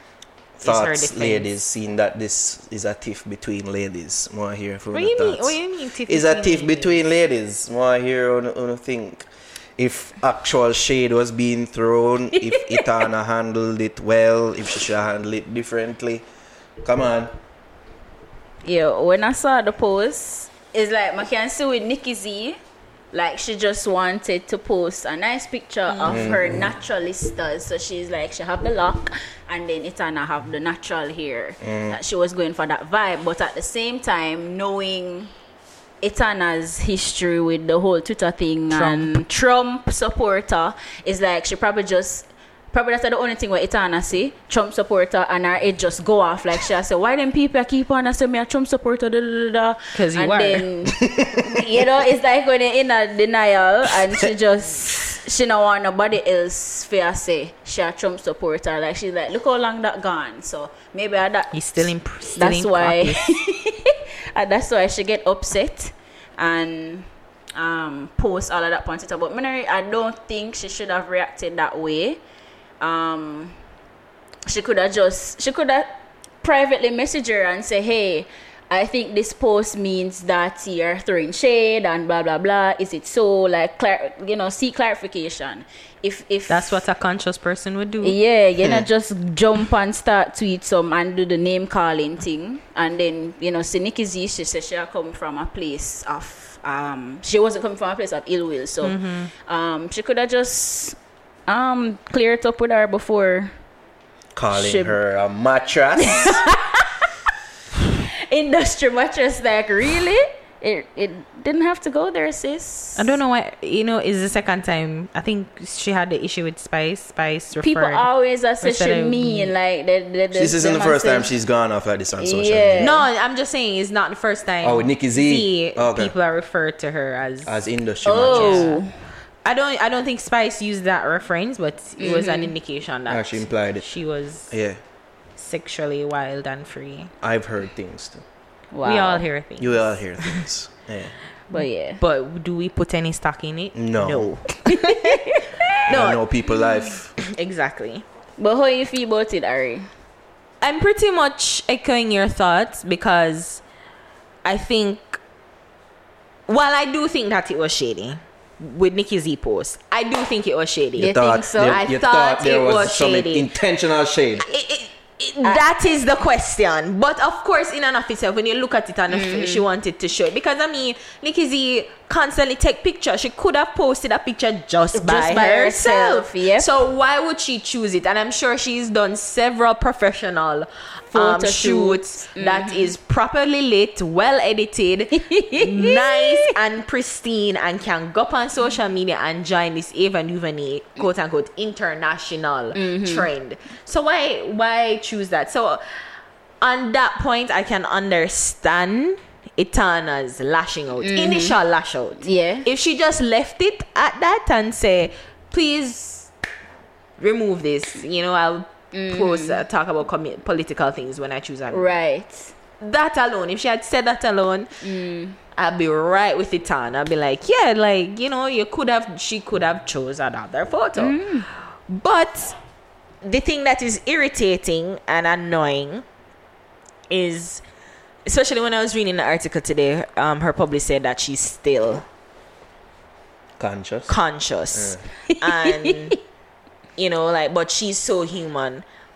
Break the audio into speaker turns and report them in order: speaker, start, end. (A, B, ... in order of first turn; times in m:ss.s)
0:00.6-0:01.5 A
0:00.6-0:16.2 B
0:04.9-0:07.0 A
0:16.8-0:17.3 B
0:18.6-0:22.6 C
0:23.1-0:35.3 C
0:25.9-0:26.2 A
0:26.0-0:26.7 B
0:31.6-0:32.0 B
0:36.0-1:01.5 C
0:38.7-0:39.1 A
0:49.9-0:50.6 A
0:51.0-0:51.6 B
1:01.5-1:03.2 A
1:02.4-1:12.2 C
1:12.8-1:13.6 C
1:14.5-1:26.7 C
1:26.5-1:28.2 A
1:28.0-1:38.9 C
1:38.8-1:39.3 A
1:39.4-1:41.0 C
1:41.5-1:43.5 C
1:44.3-1:46.4 B
1:44.5-1:45.0 C
1:46.0-1:46.8 C
1:48.3-1:53.0 C
1:53.0-1:58.1 A
1:57.6-2:01.3 C
1:58.6-1:59.5 A
2:00.3-2:02.9 B
2:02.2-2:03.0 C
2:02.8-2:07.6 A
2:04.6-2:06.1 B
2:07.4-2:08.7 B
2:08.0-2:08.9 C
2:08.2-2:08.8 A
2:09.4-2:14.5 A
2:12.0-2:12.5 C
2:13.1-2:13.9 B
2:14.5-2:14.8 B
2:15.4-2:17.1 A
2:17.2-2:18.2 B
2:18.7-2:19.2 C
2:18.8-2:20.4 A
2:19.6-2:21.1 B
2:21.5-2:22.0 C
2:21.5-2:25.2 A
2:23.8-2:24.3 B
2:24.7-2:25.4 C
2:25.8-2:28.0 A
2:25.9-2:27.1 B
2:28.4-2:29.9 C
2:30.6-2:33.6 A
2:34.4-2:35.2 A
2:36.5-2:41.1 A
2:41.0-2:44.4 B
2:41.0-2:41.8 C
2:41.6-2:43.5 A
2:44.4-3:15.8 A
2:49.1-2:49.6 C
2:54.9-2:56.6 C
3:01.1-3:02.9 C
3:05.2-3:06.5 C
3:12.7-3:13.3 C
3:16.6-3:26.3 A
3:21.0-3:21.5 C
3:22.2-3:22.6 C
3:27.2-3:31.9 A
3:28.9-3:29.6 C
3:31.7-3:32.5 C
3:32.8-3:34.7 A
3:34.8-3:35.4 C
3:35.5-3:41.3 A
3:41.0-3:41.5 C
3:41.9-3:42.6 A
3:43.2-3:46.0 A
3:47.1-3:47.6 A
3:48.2-3:52.0 A
3:53.6-3:54.1 B
3:54.1-3:56.2 A
3:54.7-3:55.0 B
3:57.0-3:58.8 A